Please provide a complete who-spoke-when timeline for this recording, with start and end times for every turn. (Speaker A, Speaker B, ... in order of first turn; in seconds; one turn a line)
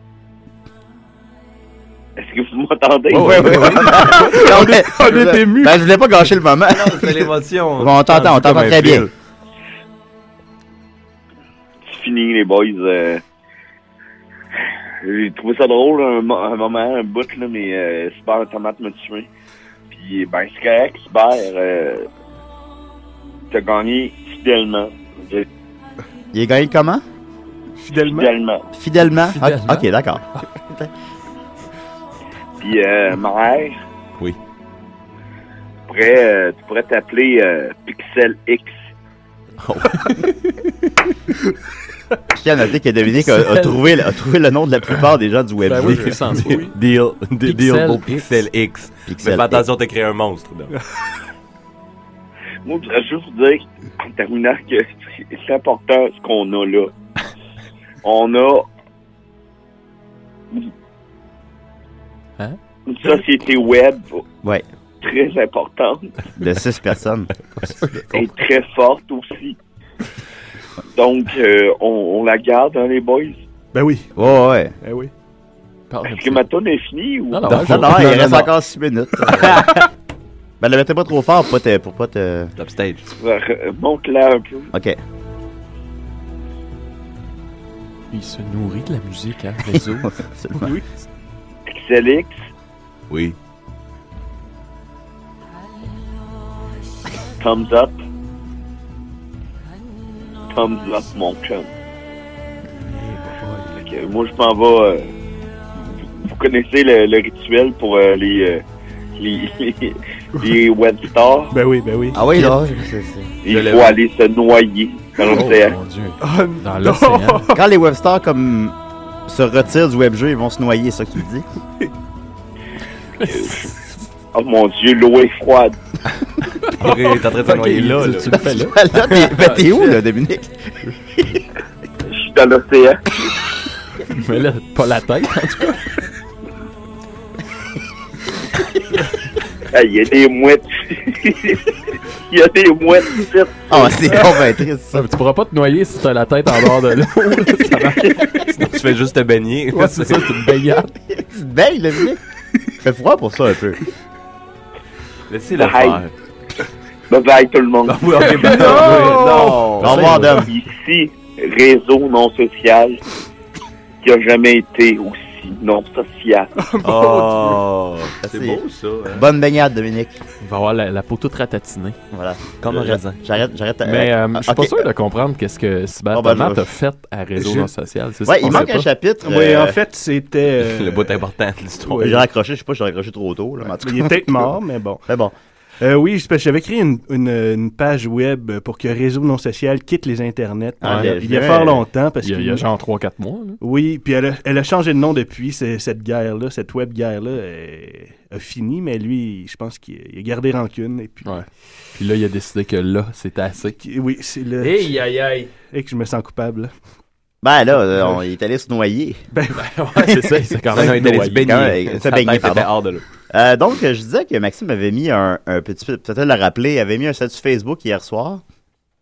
Speaker A: 2.2-3.4
Speaker B: 3.1-4.1
Speaker C: 3.2-5.8
Speaker D: 3.2-9.1
Speaker E: 6.7-9.0
Speaker A: 11.9-13.2
Speaker A: 15.0-19.3
Speaker A: 19.9-22.1
Speaker A: 23.5-25.5
Speaker D: 26.3-27.0
Speaker C: 27.8-28.3
Speaker A: 28.0-28.7
Speaker D: 28.7-30.9
Speaker B: 29.4-29.9
Speaker A: 32.6-33.8
Speaker A: 35.9-38.7
Speaker E: 39.7-40.0
Speaker D: 42.3-46.2
Speaker B: 43.2-43.9
Speaker B: 45.6-46.8
Speaker C: 46.4-46.7
Speaker E: 46.6-50.7
Speaker B: 47.4-48.3
Speaker D: 49.1-49.7
Speaker A: 52.6-56.9
Speaker A: 58.0-58.7
Speaker A: 62.9-64.2
Speaker A: 65.0-66.2
Speaker D: 66.4-67.3
Speaker B: 67.8-68.3
Speaker A: 68.1-69.6
Speaker A: 71.0-73.4
Speaker C: 73.7-74.1
Speaker D: 74.2-74.7
Speaker C: 74.8-75.1
Speaker B: 75.9-76.5
Speaker A: 76.1-77.5
Speaker B: 77.3-78.3
Speaker D: 77.5-79.7
Speaker E: 77.6-78.4
Speaker D: 80.6-82.5
Speaker E: 82.6-83.0
Speaker A: 83.2-84.7
Speaker D: 84.7-85.0
Speaker B: 88.1-90.1
Speaker D: 89.8-90.8
Speaker C: 90.6-90.9
Speaker A: 91.7-92.4
Speaker E: 93.1-93.4
Speaker A: 97.4-98.0
Speaker A: 100.5-101.7
Speaker C: 102.9-103.7
Speaker A: 103.7-105.1
Speaker A: 105.9-108.6
Speaker A: 109.2-111.5
Speaker C: 111.5-112.2
Speaker D: 112.1-113.3
Speaker A: 113.5-115.8
Speaker E: 113.5-114.0
Speaker B: 115.2-117.5
Speaker C: 116.2-117.6
Speaker D: 117.5-118.8
Speaker D: 119.3-121.4
Speaker B: 123.2-123.7
Speaker A: 123.3-123.7
Speaker A: 124.3-125.8
Speaker E: 126.8-128.5
Speaker B: 127.0-130.0
Speaker D: 128.4-130.5
Speaker D: 131.2-131.4
Speaker A: 132.1-133.0
Speaker B: 134.1-135.9
Speaker A: 139.7-141.7
Speaker A: 142.3-143.7
Speaker D: 143.7-145.1
Speaker B: 144.9-148.4
Speaker E: 148.6-150.4
Speaker B: 149.7-150.9
Speaker D: 151.1-152.2
Speaker D: 152.8-153.8
Speaker E: 155.3-156.1
Speaker A: 155.5-156.0
Speaker A: 157.1-158.3
Speaker E: 157.9-160.2
Speaker C: 158.4-159.8
Speaker B: 158.7-159.1
Speaker D: 159.8-160.5
Speaker B: 159.8-160.4
Speaker A: 160.5-163.0
Speaker A: 164.0-166.5
Speaker C: 166.6-167.6
Speaker E: 166.8-169.2
Speaker D: 168.2-170.2
Speaker B: 170.4-172.0
Speaker D: 172.1-174.9
Speaker E: 172.6-173.2
Speaker B: 173.8-178.9
Speaker D: 176.1-176.7
Speaker C: 177.4-177.7
Speaker D: 178.3-179.8
Speaker C: 179.2-181.2
Speaker E: 180.6-182.0
Speaker C: 181.8-182.2
Speaker D: 182.0-184.5
Speaker C: 183.8-185.0
Speaker D: 185.1-185.3
Speaker C: 185.8-192.7
Speaker D: 190.8-191.9
Speaker B: 190.8-191.1
Speaker B: 192.2-193.6
Speaker C: 193.6-201.3
Speaker B: 202.0-203.8
Speaker C: 203.8-204.9
Speaker B: 204.6-205.5
Speaker C: 205.7-206.7
Speaker D: 207.4-209.2
Speaker C: 209.3-209.6
Speaker B: 209.5-211.7
Speaker E: 210.7-213.0
Speaker D: 211.4-212.7
Speaker D: 213.3-218.4